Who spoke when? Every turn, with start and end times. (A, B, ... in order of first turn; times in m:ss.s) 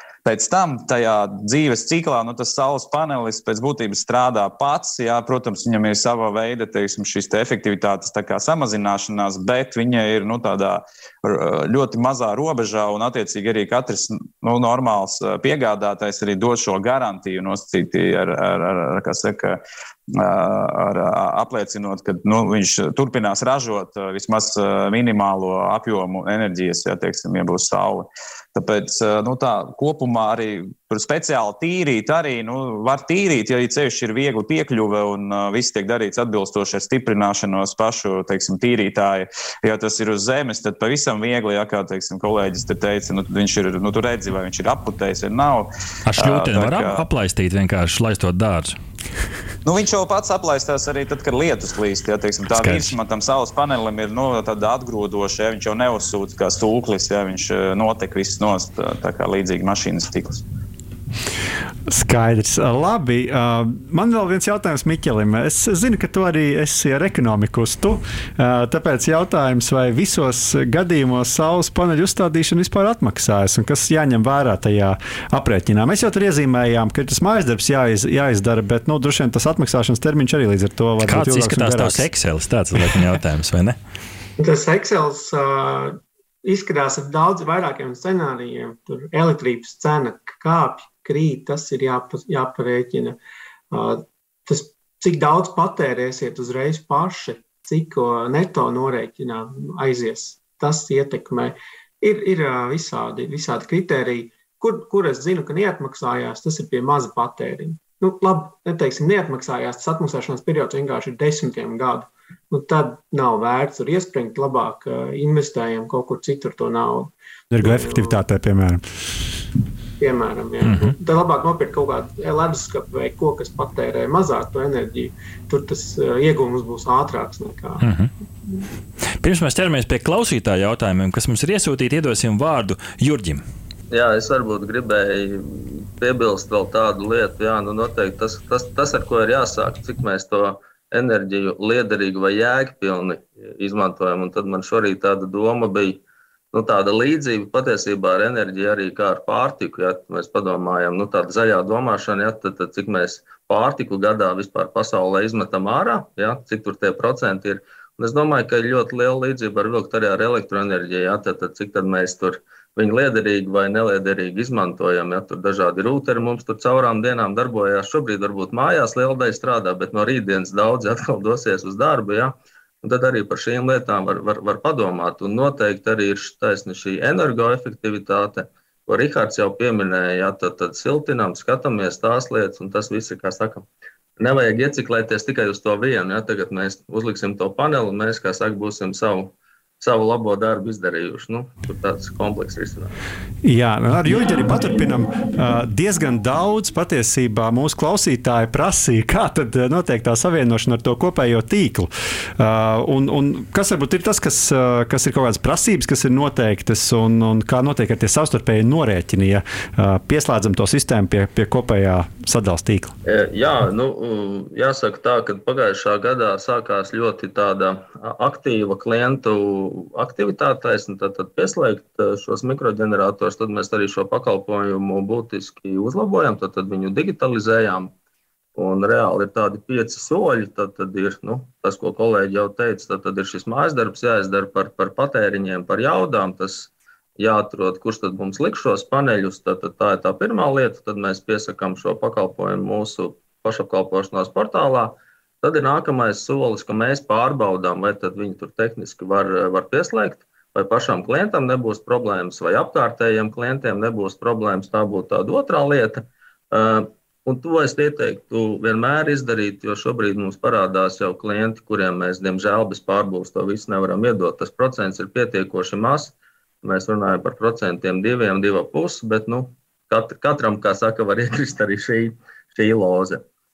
0:00.2-0:19.6 A
0:20.1-0:47.0 A
0:46.1-0:48.8 B
0:49.6-1:00.4 A
0:52.5-0:52.9 B
1:01.9-1:22.0 C
1:21.0-1:23.8 B
1:24.4-1:33.2 D
1:33.7-1:58.2 D
1:57.6-1:58.8 C
2:00.0-2:07.9 D
2:00.6-2:00.9 B
2:07.8-2:08.1 B
2:09.2-2:13.4 B
2:13.9-2:26.0 E
2:26.5-3:03.6 E
3:04.2-3:12.9 E
3:13.4-3:32.9 C
3:33.0-3:47.9 E
3:48.6-4:33.2 E